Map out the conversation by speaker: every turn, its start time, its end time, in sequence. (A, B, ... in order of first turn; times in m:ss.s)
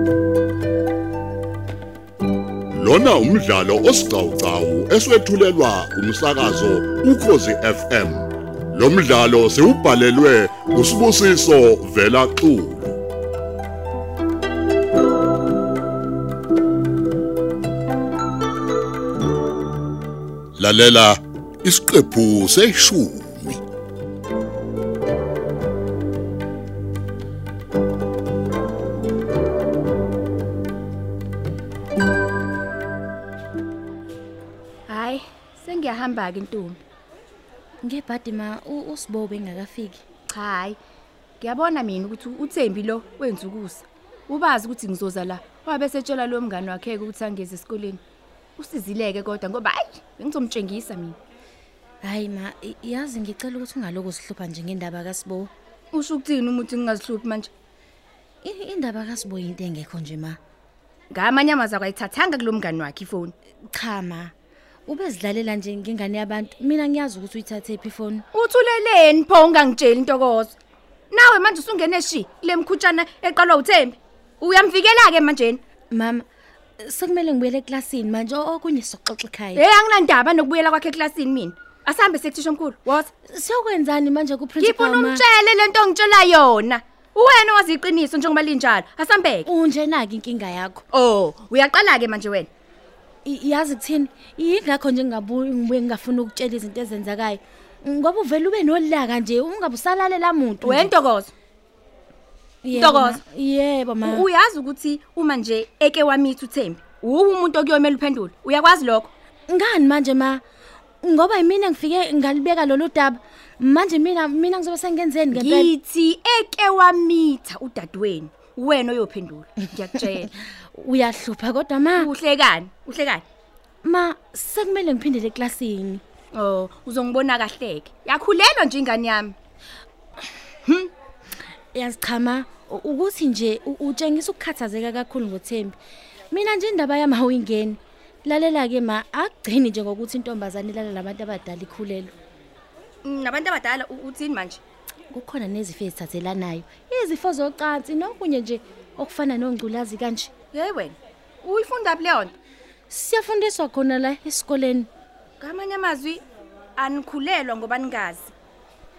0:02.8-0:13.0 A
0:20.6-0:23.6 A
0:34.9-0:36.8 B
0:37.8-0:40.0 C
0:40.3-0:40.8 B
0:41.4-0:48.0 B
0:48.6-0:51.2 B
0:52.0-0:55.5 C
0:55.9-0:57.5 B
0:58.4-1:00.4 C
1:01.1-1:03.3 B
1:03.7-1:04.3 C
1:04.8-1:08.2 C
1:08.3-1:10.5 B
1:11.1-1:15.6 B
1:15.9-1:16.2 C
1:16.8-1:19.6 C
1:19.6-1:23.1 B
1:23.3-1:25.2 C
1:24.6-1:29.5 B
1:29.4-1:30.8 C
1:30.9-1:32.5 B
1:33.2-1:40.9 C
1:40.6-1:41.3 B
1:42.6-1:44.3 C
1:42.8-1:43.2 B
1:44.0-1:49.1 B
1:49.5-1:50.4 C
1:51.0-1:55.7 C
1:55.3-2:00.3 B
1:59.6-2:00.2 C
2:00.7-2:02.2 C
2:02.0-2:03.2 B
2:03.8-2:06.0 C
2:06.3-2:09.4 B
2:11.7-2:15.8 C
2:16.3-2:22.1 C
2:23.0-2:24.6 B
2:25.1-2:30.3 C
2:30.5-2:32.3 B
2:32.9-2:34.9 C
2:35.4-2:36.2 B
2:36.8-2:38.3 B